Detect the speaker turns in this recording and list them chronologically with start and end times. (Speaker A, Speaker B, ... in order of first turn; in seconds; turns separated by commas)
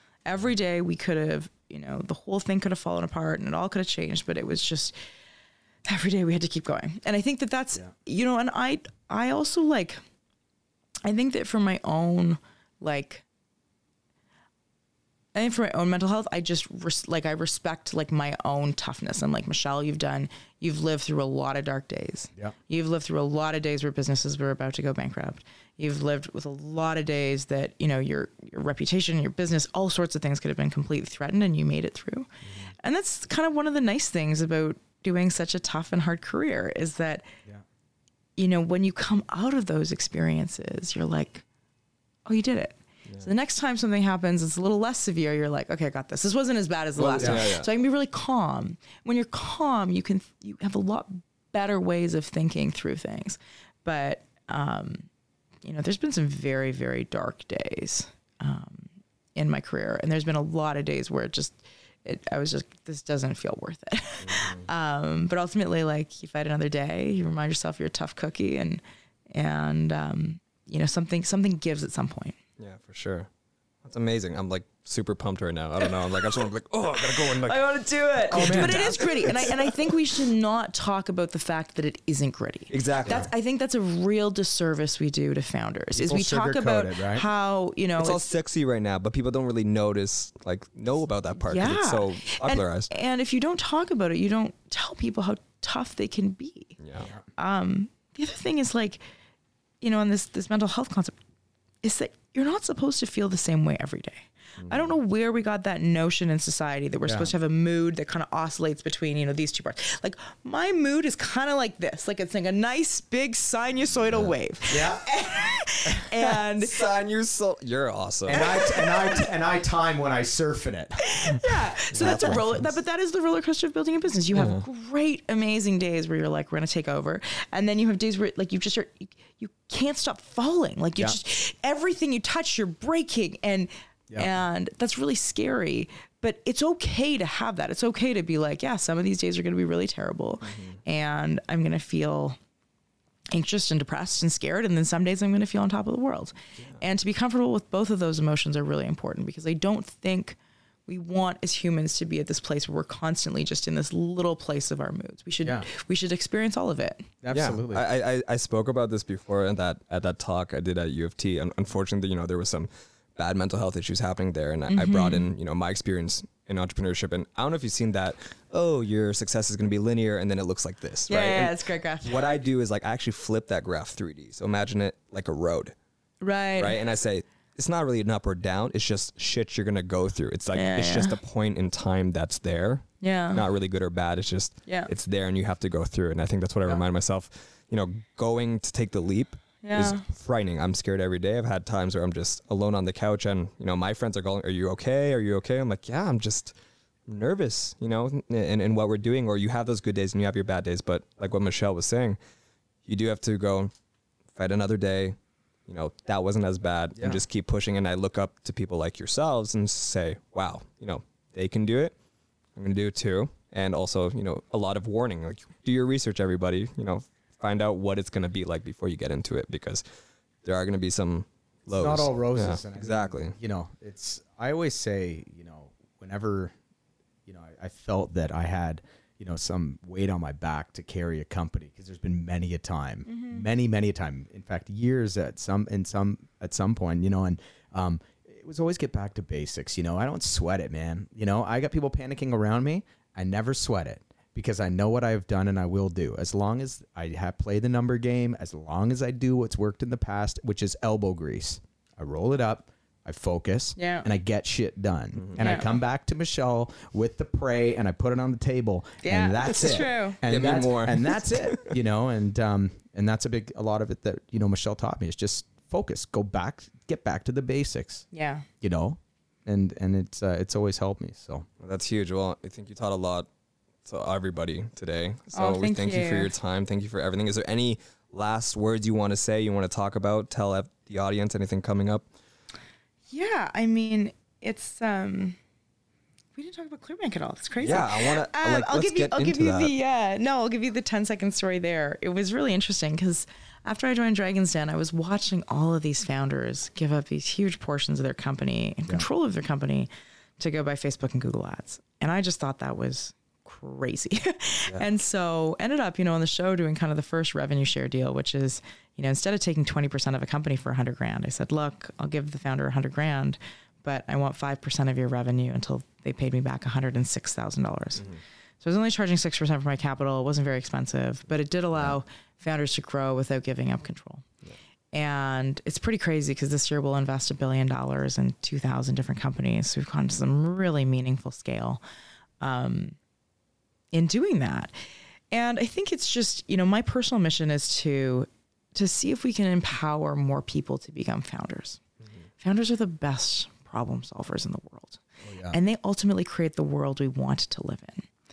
Speaker A: 0.2-5.0, Speaker A: 5.9-10.0, Speaker A: 11.1-13.2, Speaker A: 15.3-32.3, Speaker B: 32.5-32.7, Speaker A: 32.8-37.3, Speaker A: 38.4-41.4, Speaker A: 42.3-55.1, Speaker C: 47.0-47.7, Speaker B: 47.2-47.5, Speaker A: 55.6-72.4, Speaker C: 64.2-64.7, Speaker C: 72.6-73.3, Speaker C: 73.8-77.6, Speaker A: 77.1-88.2, Speaker C: 78.3-79.8, Speaker B: 78.3-79.0, Speaker C: 82.7-83.3, Speaker B: 86.0-87.3, Speaker C: 88.0-92.9, Speaker A: 91.5-96.8, Speaker C: 96.8-97.1, Speaker A: 97.4-99.0, Speaker A: 99.8-101.2, Speaker A: 101.8-116.8, Speaker C: 104.6-104.9, Speaker B: 107.0-107.3, Speaker B: 114.7-115.1, Speaker C: 116.3-118.4, Speaker A: 118.3-119.3, Speaker B: 118.3-122.7, Speaker A: 121.0-142.4, Speaker C: 121.9-122.6, Speaker C: 124.3-124.6, Speaker C: 140.5-140.8, Speaker A: 143.3-157.1, Speaker B: 157.2-157.8, Speaker C: 157.3-175.8, Speaker A: 164.7-165.3, Speaker A: 171.1-172.2, Speaker A: 176.2-176.8, Speaker C: 176.6-196.6, Speaker A: 180.5-181.2, Speaker A: 183.0-183.4, Speaker A: 189.6-190.0, Speaker C: 197.1-202.2, Speaker C: 202.8-203.7, Speaker C: 204.3-211.9, Speaker B: 206.9-207.2, Speaker C: 212.6-219.8, Speaker C: 220.4-223.3, Speaker B: 221.7-226.5, Speaker B: 227.3-268.1, Speaker A: 233.1-233.4, Speaker A: 253.8-254.1, Speaker C: 255.2-255.4, Speaker A: 255.4-255.8, Speaker A: 259.0-260.2, Speaker C: 260.3-261.7, Speaker A: 268.1-268.5, Speaker B: 268.6-271.4, Speaker C: 271.6-273.3, Speaker C: 273.8-282.1, Speaker A: 275.3-276.3, Speaker A: 283.1-285.4, Speaker A: 286.4-318.1, Speaker C: 287.6-289.7, Speaker A: 318.6-324.2, Speaker A: 324.9-331.8, Speaker A: 332.4-332.9, Speaker A: 333.9-334.7, Speaker A: 335.3-341.8, Speaker A: 342.4-348.1, Speaker B: 345.2-345.6